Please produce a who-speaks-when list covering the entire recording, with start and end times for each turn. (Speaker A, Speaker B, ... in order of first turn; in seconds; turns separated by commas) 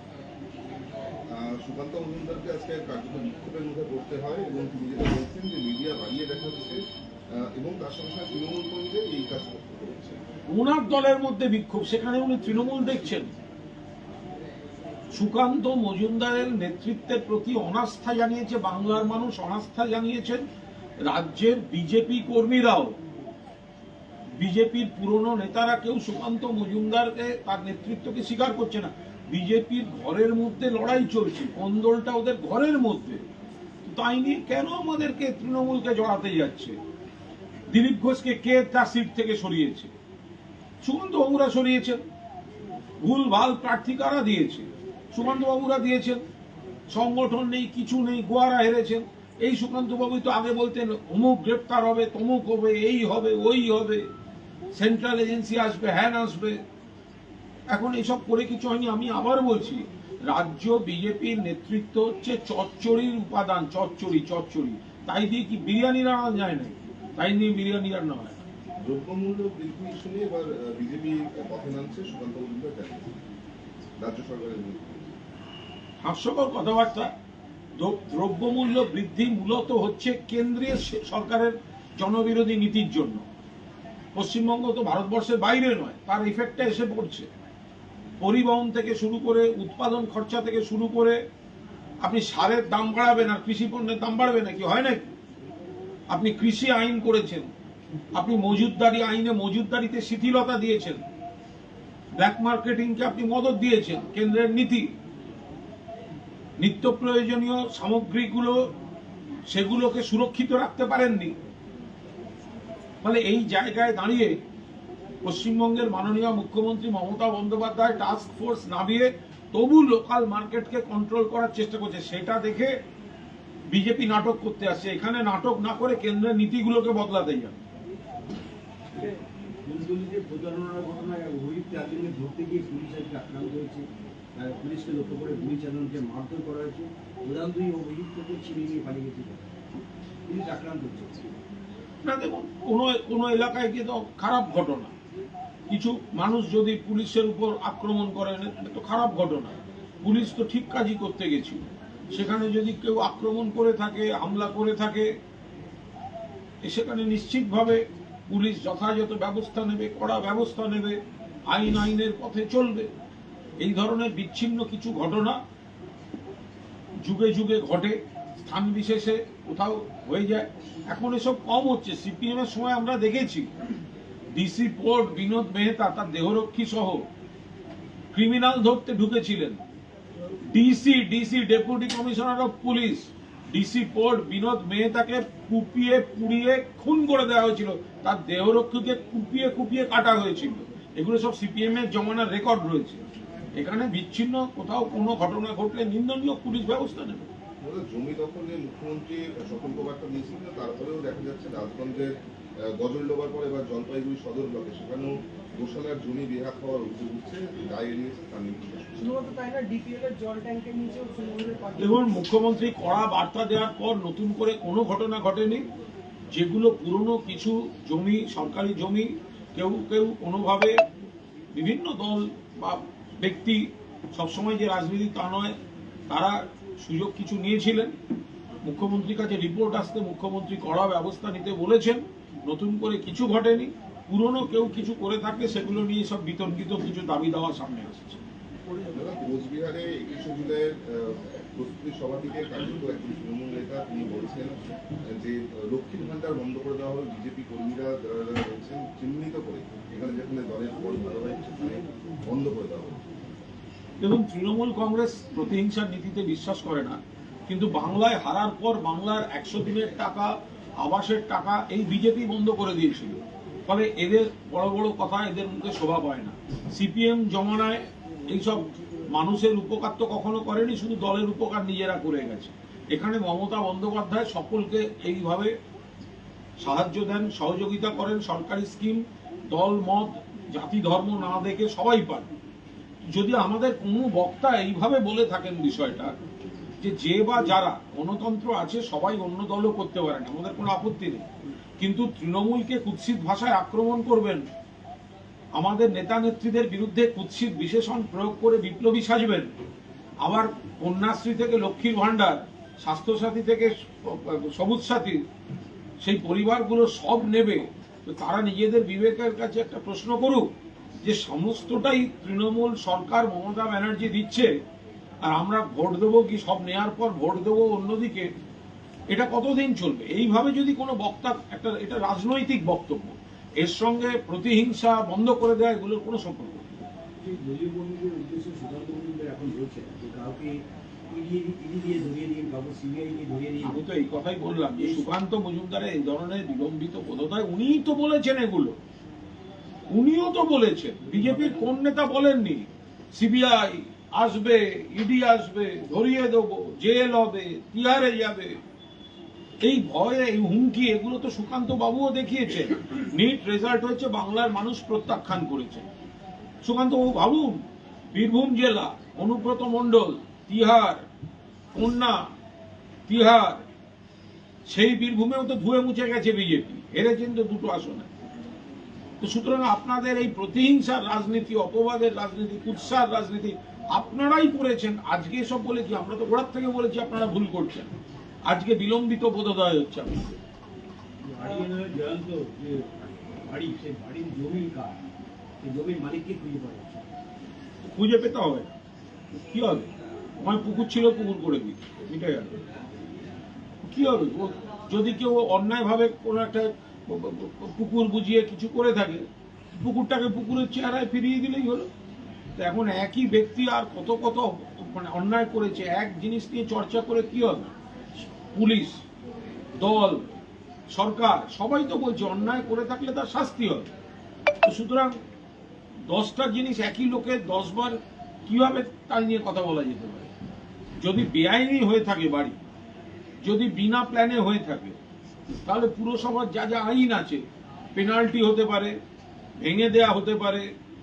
Speaker A: 1.3-10.2, Speaker B: 10.5-13.3, Speaker B: 15.1-20.4, Speaker B: 21.0-23.0, Speaker B: 24.4-33.2, Speaker B: 33.8-36.7, Speaker B: 37.7-39.9, Speaker B: 40.8-42.0, Speaker B: 43.0-46.2, Speaker B: 46.9-54.0, Speaker B: 54.7-56.6, Speaker B: 57.7-68.4, Speaker A: 68.8-73.2, Speaker A: 74.0-75.2, Speaker B: 76.0-77.1, Speaker B: 77.8-83.2, Speaker B: 84.1-87.3, Speaker B: 88.2-91.2, Speaker B: 92.0-95.0, Speaker B: 96.1-97.5, Speaker B: 98.1-101.0, Speaker B: 102.2-104.9, Speaker B: 106.6-108.7, Speaker B: 109.5-111.3, Speaker B: 113.0-114.3, Speaker B: 115.2-122.8, Speaker B: 123.7-127.5, Speaker C: 129.6-133.8, Speaker C: 134.3-139.5, Speaker C: 140.3-141.3, Speaker B: 142.0-144.9, Speaker B: 145.7-155.1, Speaker B: 156.6-162.9, Speaker B: 163.6-165.4, Speaker B: 167.0-173.5, Speaker B: 174.3-177.1, Speaker B: 178.1-179.6, Speaker B: 180.5-193.0, Speaker B: 193.5-197.3, Speaker A: 197.6-209.1, Speaker D: 209.0-212.2, Speaker B: 211.8-215.6, Speaker B: 216.3-220.8, Speaker B: 221.5-225.6, Speaker B: 226.1-227.9, Speaker B: 228.6-238.2, Speaker A: 238.9-253.0, Speaker B: 254.0-275.5, Speaker B: 276.6-282.3, Speaker B: 283.1-286.1, Speaker B: 286.8-294.4, Speaker B: 295.5-299.5, Speaker B: 300.2-305.2, Speaker B: 306.0-310.5, Speaker B: 311.0-314.5, Speaker B: 315.2-318.3, Speaker B: 319.1-326.7, Speaker C: 327.2-333.8, Speaker B: 333.6-338.8, Speaker C: 334.8-335.1, Speaker B: 339.9-348.6, Speaker B: 349.6-355.9, Speaker B: 356.6-361.0, Speaker B: 361.7-362.3, Speaker B: 363.1-363.6, Speaker B: 364.7-368.1, Speaker B: 369.2-377.9, Speaker B: 378.4-380.4, Speaker C: 381.2-385.0, Speaker C: 385.6-387.0, Speaker B: 387.9-388.7, Speaker B: 389.3-392.6, Speaker B: 393.8-399.2, Speaker B: 399.8-401.9, Speaker B: 402.6-407.7, Speaker B: 408.5-409.0, Speaker B: 409.8-410.2, Speaker B: 410.9-413.9, Speaker B: 414.6-415.2, Speaker B: 416.0-420.3, Speaker B: 421.0-422.6, Speaker B: 423.4-424.9, Speaker B: 425.6-429.0, Speaker B: 429.6-430.7